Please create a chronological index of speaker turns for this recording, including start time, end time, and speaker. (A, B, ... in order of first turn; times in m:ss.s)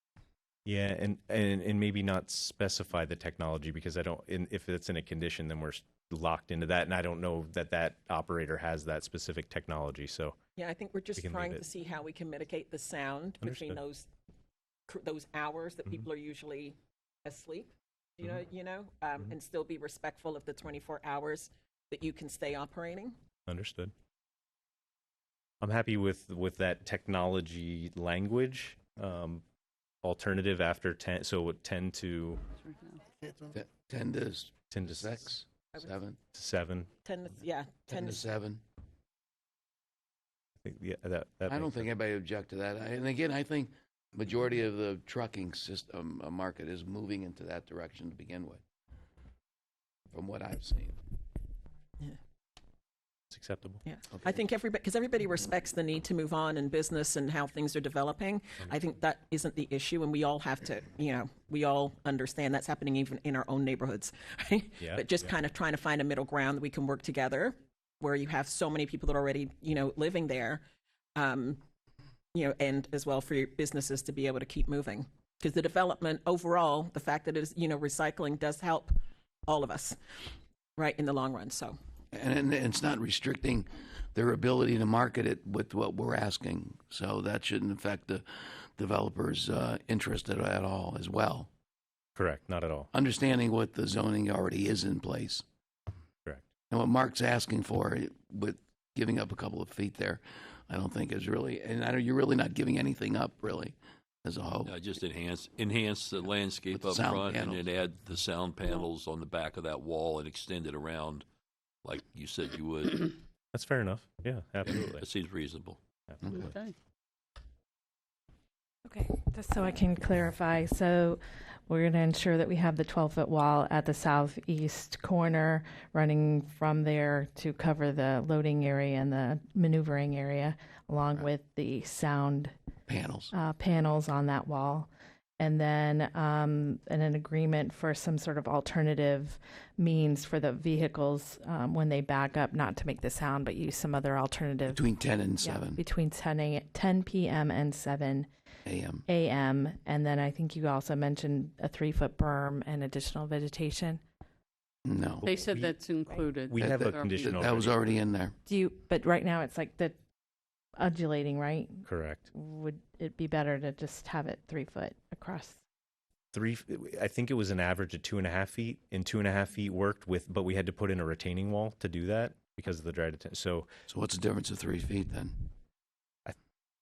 0:00.7-0:10.4 A
0:10.6-0:14.1 B
0:11.2-0:11.6 A
0:13.4-0:13.8 A
0:14.9-0:23.2 B
0:23.5-0:23.9 A
0:25.6-0:29.4 A
0:30.0-0:32.4 A
0:32.6-0:33.0 C
0:33.5-0:36.2 D
0:34.7-0:35.3 A
0:35.7-0:36.0 B
0:36.3-0:36.9 A
0:37.0-0:38.2 B
0:37.9-0:38.6 D
0:40.6-0:41.9 A
0:41.5-0:48.6 D
0:50.1-0:51.0 D
0:53.3-0:53.8 A
0:53.9-1:10.6 B
0:54.1-0:54.5 D
1:04.8-1:05.1 A
1:11.2-1:11.6 B
1:12.3-1:20.0 B
1:20.8-1:21.8 B
1:22.1-1:31.5 D
1:32.2-1:32.9 A
1:32.9-1:35.4 D
1:36.7-1:44.8 D
1:44.6-1:51.2 E
1:46.7-1:47.7 D
1:51.8-1:53.2 E
1:53.5-1:55.0 A
1:54.6-1:55.8 E
1:56.2-1:56.5 D
1:56.3-1:56.7 C
1:58.8-2:12.5 F
2:12.9-2:13.3 D
2:13.3-2:24.8 F
2:24.7-2:25.8 D
2:25.4-2:28.3 F
2:28.7-2:29.0 D
2:29.1-2:34.0 F
2:34.9-2:35.3 D
2:35.2-2:37.5 C
2:35.4-2:35.8 A
2:36.5-2:38.0 A
2:36.6-2:38.3 D
2:38.5-2:40.0 F
2:40.8-2:45.6 F
2:41.9-2:42.3 A
2:46.3-2:53.7 A
2:53.9-2:55.5 D